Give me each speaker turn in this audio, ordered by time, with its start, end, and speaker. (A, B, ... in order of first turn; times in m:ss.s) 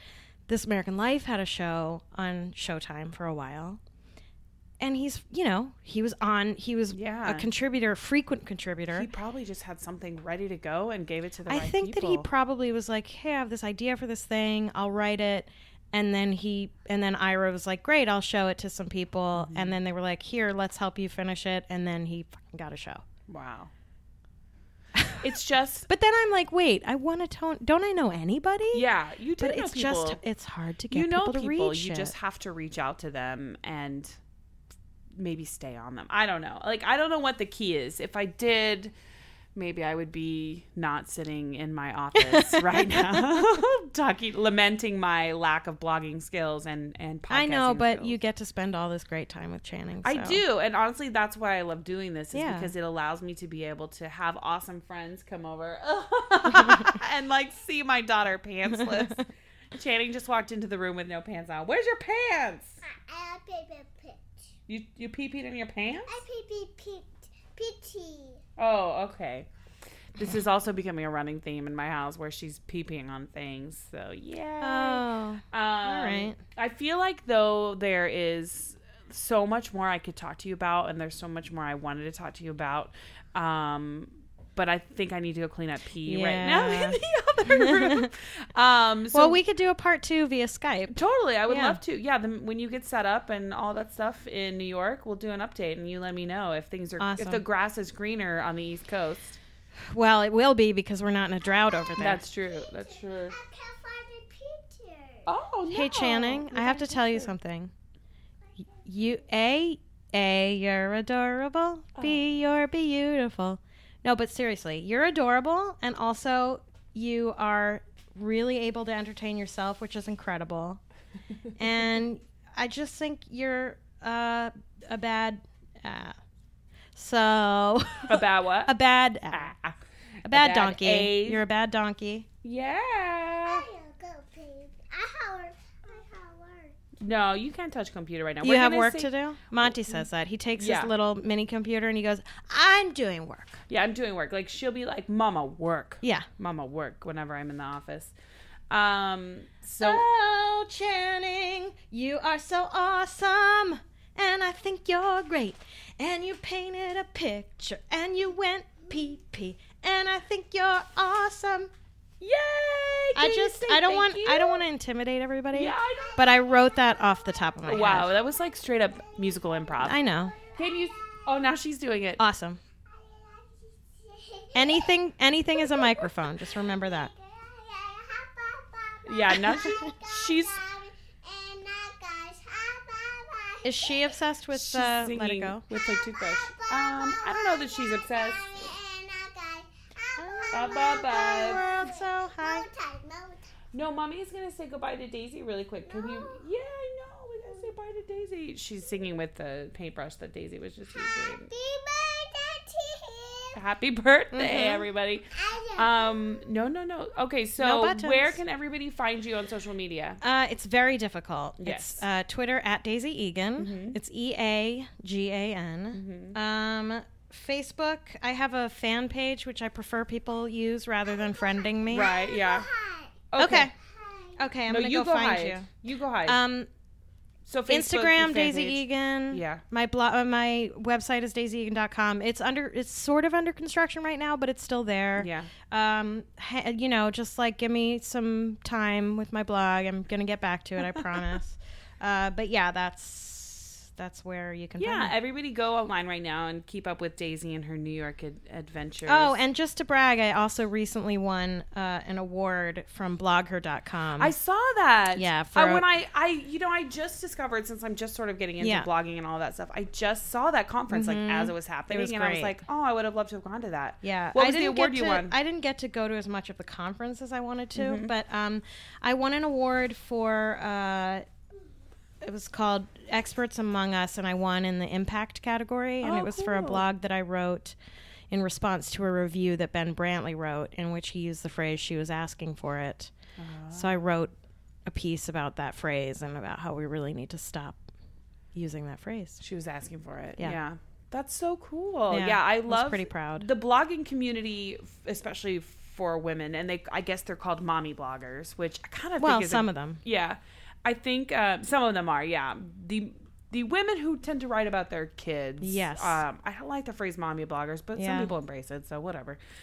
0:00.5-0:03.8 A
0:04.8-0:09.1 A
0:06.9-0:07.5 B
0:08.9-0:12.2 B
0:11.5-0:23.0 A
0:19.3-0:19.8 B
0:23.3-0:23.7 B
0:25.2-0:25.9 B
0:25.9-0:28.9 A
0:28.7-0:30.2 B
0:29.4-0:32.1 A
0:30.9-0:34.2 B
0:35.2-0:38.9 B
0:39.5-0:48.2 B
0:42.2-0:43.6 A
0:47.3-0:50.4 A
0:50.0-0:59.2 B
0:52.3-0:52.7 A
0:56.6-0:56.8 A
0:58.8-0:59.2 A
0:59.7-1:02.8 B
1:02.8-1:04.4 C
1:04.7-1:06.2 B
1:06.1-1:08.4 C
1:08.6-1:09.5 B
1:10.1-1:29.4 B
1:14.6-1:16.4 A
1:26.0-1:28.1 A
1:29.1-1:31.8 A
1:30.9-1:39.4 B
1:37.0-1:37.4 A
1:39.8-1:42.2 A
1:41.5-1:45.3 C
1:42.0-1:43.4 B
1:45.2-1:47.3 B
1:45.7-1:47.7 A
1:48.8-2:00.8 A
1:51.9-1:52.3 B
2:01.6-2:06.2 A
2:07.0-2:09.5 A
2:08.1-2:08.7 B
2:09.3-2:11.4 B
2:10.2-2:12.3 A
2:12.4-2:13.7 B
2:13.4-2:16.8 C
2:17.0-2:20.9 B
2:18.4-2:23.6 A
2:23.7-2:28.1 B
2:26.0-2:26.3 A
2:28.7-2:30.0 B
2:29.8-2:41.7 A
2:42.2-2:44.6 B
2:43.1-2:48.1 A
2:45.5-2:46.3 B
2:46.3-2:47.2 C
2:47.6-2:50.0 B
2:49.2-2:49.5 C
2:49.8-2:50.4 A
2:50.2-2:51.2 C
2:50.5-2:52.2 B
2:52.2-2:52.6 A
2:52.9-2:55.0 C
2:54.5-2:57.1 A
2:55.5-3:04.2 C
2:59.0-3:00.6 B
3:03.6-3:05.6 A
3:04.5-3:08.4 B
3:05.7-3:13.5 C
3:10.5-3:10.8 A
3:10.5-3:11.6 B
3:11.3-3:12.7 A
3:13.7-3:21.5 B
3:15.8-3:16.4 C
3:20.9-3:23.6 C
3:23.5-3:30.2 B
3:24.3-3:24.8 A
3:25.3-3:26.4 C
3:27.6-3:28.4 A
3:30.2-3:42.1 A
3:31.6-3:32.0 B
3:33.6-3:34.0 B
3:35.9-3:36.4 B
3:41.1-3:43.2 C
3:41.9-3:42.7 B
3:43.3-3:43.7 B
3:43.4-3:43.7 A
3:43.7-3:44.4 C
3:44.4-3:45.7 A
3:44.7-3:46.4 B
3:46.2-3:46.7 A
3:47.4-3:49.6 B
3:47.7-4:05.1 A
3:55.2-3:55.5 B
4:04.8-4:09.4 B
4:09.0-4:14.3 A
4:14.2-4:25.3 B
4:15.2-4:15.8 A
4:18.6-4:18.9 A
4:20.9-4:22.6 A
4:24.0-4:31.3 A
4:27.8-4:28.1 B
4:32.2-4:37.8 A
4:36.0-4:36.8 B
4:38.3-4:43.1 A
4:43.4-4:44.1 B
4:43.7-4:44.3 A
4:44.8-4:47.8 A
4:48.5-4:49.4 A
4:49.4-5:09.4 B
4:52.1-4:53.5 A
4:59.2-5:00.0 A
5:05.6-5:06.2 A
5:07.9-5:08.3 A